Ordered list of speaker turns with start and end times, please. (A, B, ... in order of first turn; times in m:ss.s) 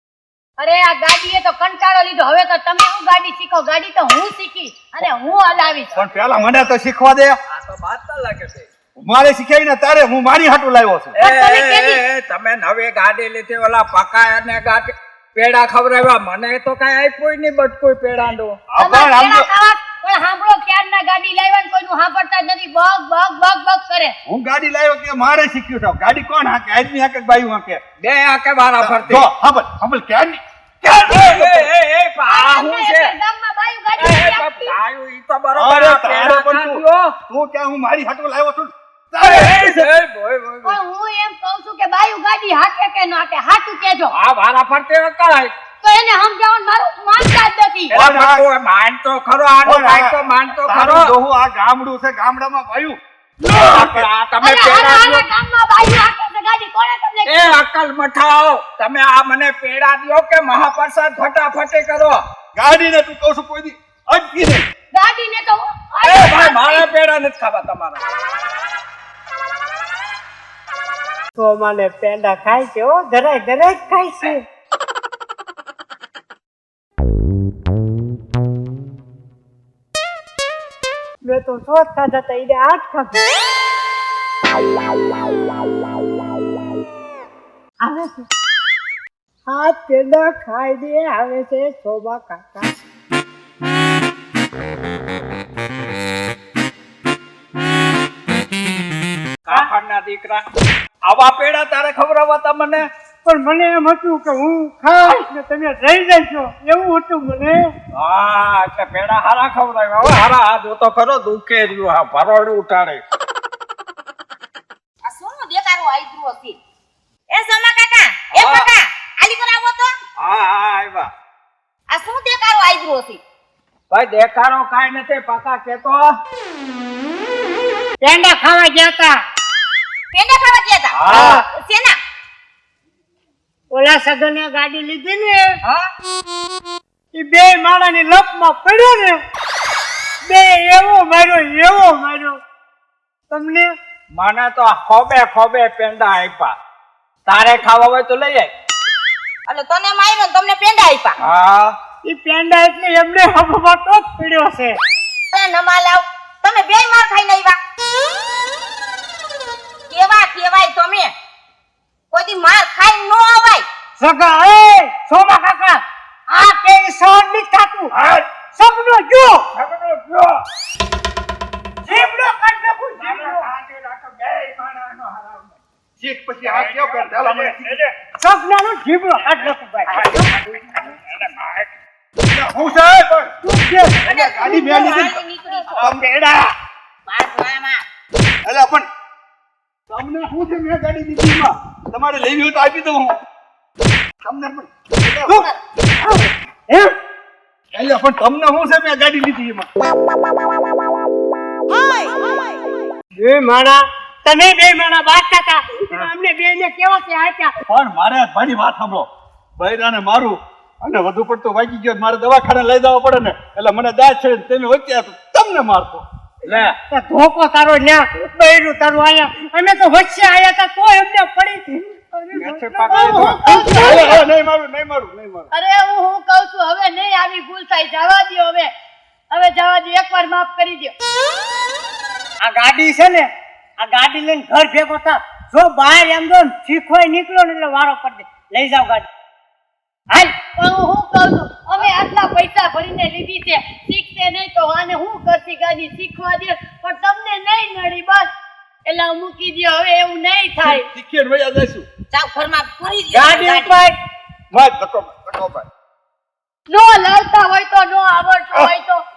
0:00.6-0:05.9 A
0:06.0-0:07.4 B
0:07.5-0:08.7 C
0:09.0-0:11.2 B
0:11.2-0:18.6 C
0:11.2-0:12.0 A
0:18.7-0:19.5 B
0:18.8-0:24.2 A
0:24.3-0:27.8 B
0:28.0-0:29.3 C
0:28.8-0:31.7 B
0:31.0-0:33.1 C
0:32.2-0:34.8 A
0:34.0-0:37.1 C
0:35.5-0:39.9 B
0:39.2-0:40.8 C
0:40.6-0:44.1 A
0:44.1-0:45.5 C
0:45.8-0:48.0 A
0:47.9-0:48.5 B
0:47.9-0:51.1 C
0:49.6-0:54.1 B
0:53.5-0:55.2 C
0:54.4-0:57.6 A
0:57.3-1:02.2 C
1:02.6-1:04.6 B
1:04.9-1:06.9 A
1:06.0-1:08.0 C
1:11.4-1:14.4 D
1:21.2-1:23.2 D
1:27.8-1:28.2 D
1:29.5-1:32.7 D
1:39.4-1:40.4 C
1:41.1-1:42.8 C
1:43.2-1:47.7 D
1:48.0-1:53.0 C
1:55.0-1:56.6 E
1:57.3-2:00.0 E
1:58.3-1:58.7 C
2:00.2-2:01.1 C
2:01.9-2:03.2 E
2:03.9-2:06.1 C
2:08.0-2:09.2 D
2:10.1-2:12.0 E
2:10.9-2:11.5 C
2:13.7-2:15.6 D
2:17.1-2:19.2 D
2:20.3-2:22.4 D
2:23.3-2:23.8 D
2:24.1-2:26.6 C
2:27.3-2:28.5 C
2:29.5-2:31.2 E
2:31.2-2:31.8 C
2:32.0-2:34.8 D
2:35.3-2:37.6 E
2:39.9-2:41.1 E
2:42.1-2:43.7 E
2:44.0-2:47.9 D
2:48.5-2:49.4 D
2:49.5-2:50.4 C
2:51.8-2:52.2 C
2:51.9-2:53.5 D
2:53.0-2:55.5 C
2:56.0-2:57.7 B
2:56.4-2:57.9 C
2:58.2-3:00.3 D
2:59.9-3:01.7 C
3:02.3-3:03.3 B
3:03.4-3:04.0 D
3:04.0-3:05.2 B
3:04.1-3:05.9 E
3:05.8-3:06.5 B
3:07.1-3:07.8 E
3:08.4-3:08.9 B
3:09.9-3:13.2 B
3:14.2-3:15.4 B
3:16.0-3:16.9 D
3:17.7-3:19.7 B
3:23.2-3:27.5 D
3:27.7-3:36.0 B
3:36.4-3:36.8 C
3:36.9-3:44.2 D
3:42.3-3:43.5 C
3:43.0-3:44.2 A
3:43.5-3:45.5 B
3:45.5-3:48.7 A
3:49.3-3:50.9 A
3:52.4-3:59.1 D
4:00.6-4:08.3 A
4:08.9-4:10.9 A
4:10.6-4:11.9 B
4:12.1-4:13.7 E
4:13.1-4:14.0 D
4:14.5-4:15.7 B
4:16.7-4:19.0 A